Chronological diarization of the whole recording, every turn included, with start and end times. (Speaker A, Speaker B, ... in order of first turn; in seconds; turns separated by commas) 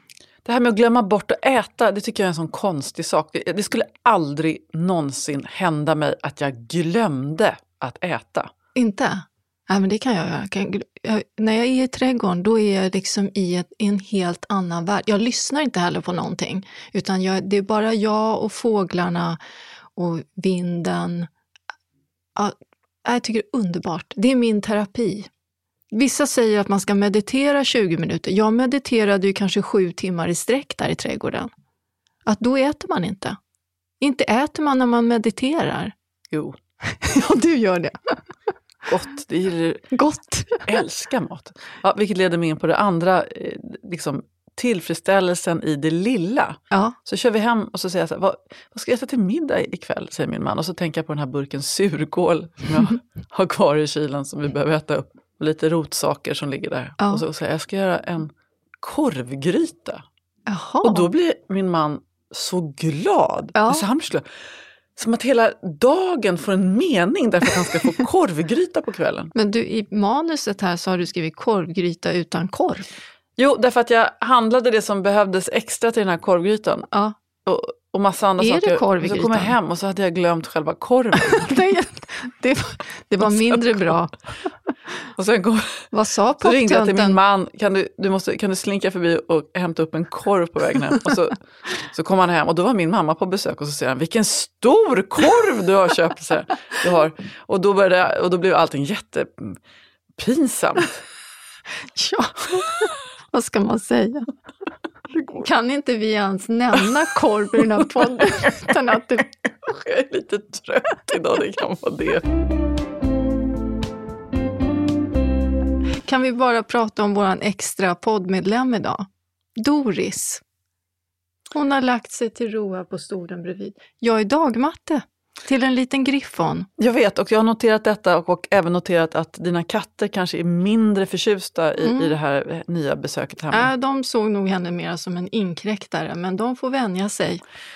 Speaker A: 0.4-8.5, Speaker B: 8.7-19.4, Speaker B: 19.9-21.3, Speaker B: 22.4-25.3, Speaker B: 25.9-31.5, Speaker B: 32.2-33.4, Speaker B: 34.0-35.9, Speaker A: 36.3-36.6, Speaker B: 36.9-38.2, Speaker A: 38.9-39.9, Speaker B: 39.9-40.7, Speaker A: 40.6-58.3, Speaker B: 46.7-47.0, Speaker B: 57.0-57.2, Speaker A: 58.8-60.0, Speaker B: 60.5-61.1, Speaker A: 60.8-64.2, Speaker B: 63.5-63.8, Speaker A: 65.0-69.3, Speaker B: 69.3-72.8, Speaker A: 73.4-76.9, Speaker A: 77.4-81.5, Speaker B: 78.4-79.5, Speaker B: 81.2-84.2, Speaker A: 83.2-83.9, Speaker A: 85.2-85.9, Speaker B: 85.9-87.2, Speaker A: 86.4-99.6, Speaker A: 100.2-101.0, Speaker B: 102.0-104.3, Speaker A: 105.1-105.4, Speaker B: 105.4-109.3, Speaker A: 108.0-108.5, Speaker A: 109.6-112.2, Speaker B: 116.0-119.0, Speaker B: 119.6-120.4, Speaker B: 121.5-126.7, Speaker A: 126.8-133.7, Speaker B: 131.8-132.2, Speaker B: 133.5-137.4